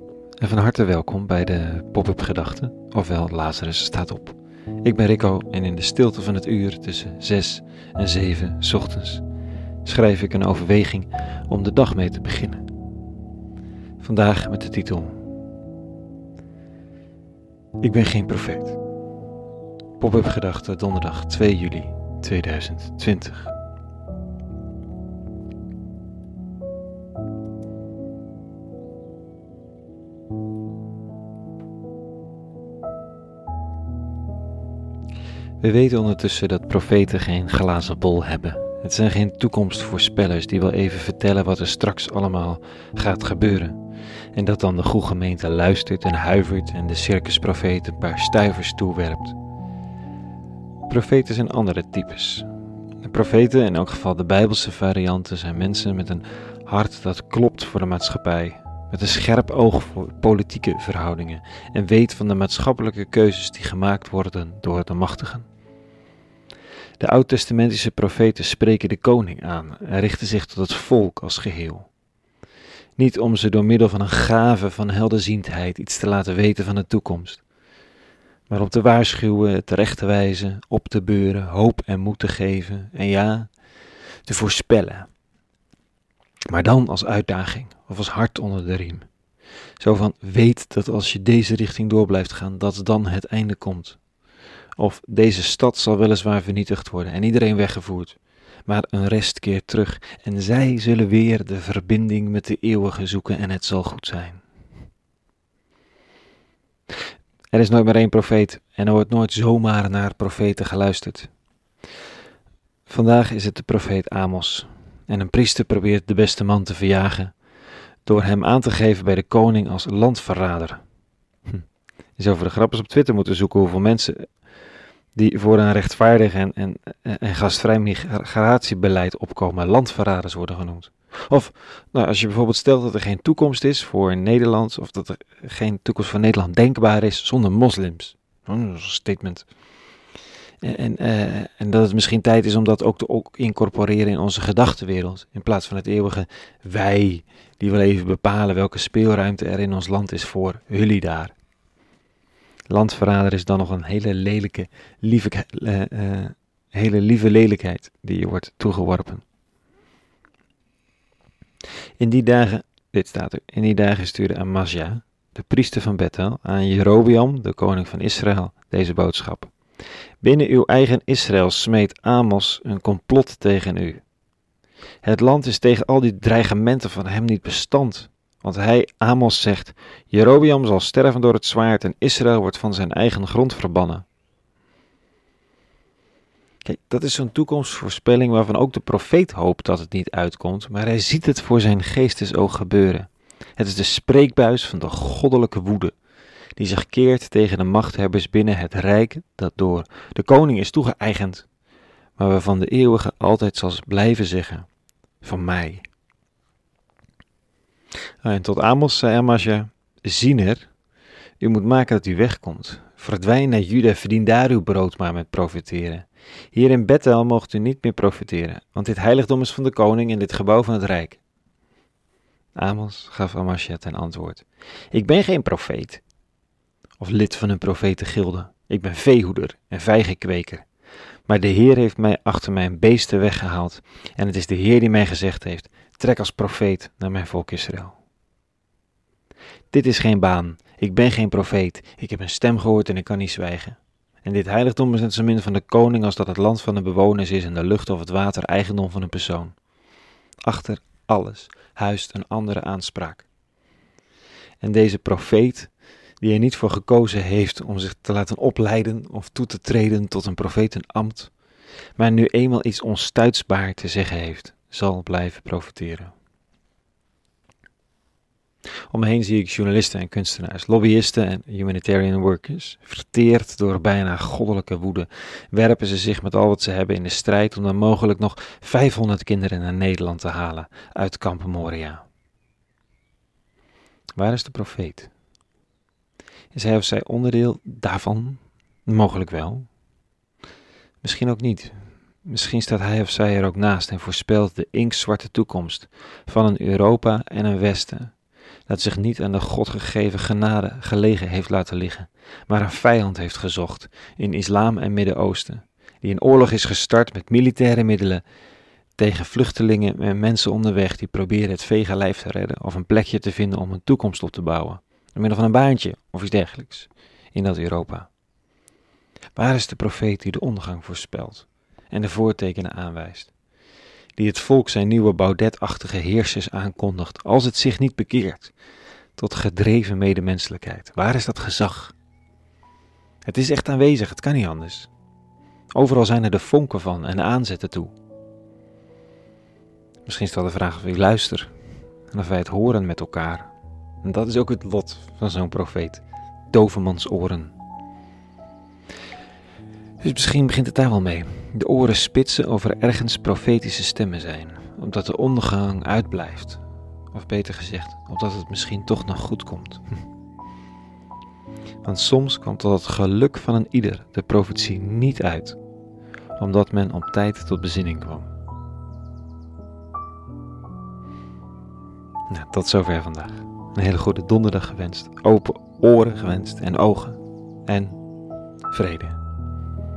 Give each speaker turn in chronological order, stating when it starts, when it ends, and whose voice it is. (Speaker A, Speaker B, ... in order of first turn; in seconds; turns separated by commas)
Speaker A: 0.4-9.2, Speaker A: 9.8-12.6, Speaker A: 14.0-15.2, Speaker A: 17.8-18.8, Speaker A: 20.0-23.5, Speaker A: 35.6-43.8, Speaker A: 44.3-49.4, Speaker A: 50.9-52.5, Speaker A: 53.0-65.5, Speaker A: 67.0-71.9, Speaker A: 73.0-77.4, Speaker A: 78.5-83.5, Speaker A: 84.2-85.1, Speaker A: 86.5-89.1, Speaker A: 89.8-94.0, Speaker A: 94.8-104.4, Speaker A: 107.5-111.3, Speaker A: 112.9-117.3, Speaker A: 118.0-120.8, Speaker A: 122.2-124.3, Speaker A: 125.2-139.4, Speaker A: 140.6-151.3, Speaker A: 152.7-159.2, Speaker A: 162.0-169.5, Speaker A: 170.2-174.0, Speaker A: 175.0-184.1, Speaker A: 186.6-195.9, Speaker A: 196.6-201.5, Speaker A: 202.2-204.7, Speaker A: 205.2-205.8, Speaker A: 208.2-210.7, Speaker A: 211.4-221.2, Speaker A: 222.6-226.0, Speaker A: 227.0-230.7, Speaker A: 231.3-238.0, Speaker A: 239.7-249.6, Speaker A: 250.4-253.3, Speaker A: 254.6-261.3, Speaker A: 262.0-266.1, Speaker A: 268.9-282.0, Speaker A: 284.1-285.1, Speaker A: 286.5-289.7, Speaker A: 291.0-298.1, Speaker A: 298.7-308.2, Speaker A: 309.0-318.1, Speaker A: 319.3-323.3, Speaker A: 324.2-328.5, Speaker A: 329.2-331.9, Speaker A: 333.2-334.9, Speaker A: 335.7-337.9, Speaker A: 340.0-341.5, Speaker A: 342.1-343.5, Speaker A: 344.0-347.5, Speaker A: 350.0-356.6, Speaker A: 357.1-359.8, Speaker A: 361.8-365.6, Speaker A: 366.4-368.3, Speaker A: 372.3-378.0, Speaker A: 378.7-379.2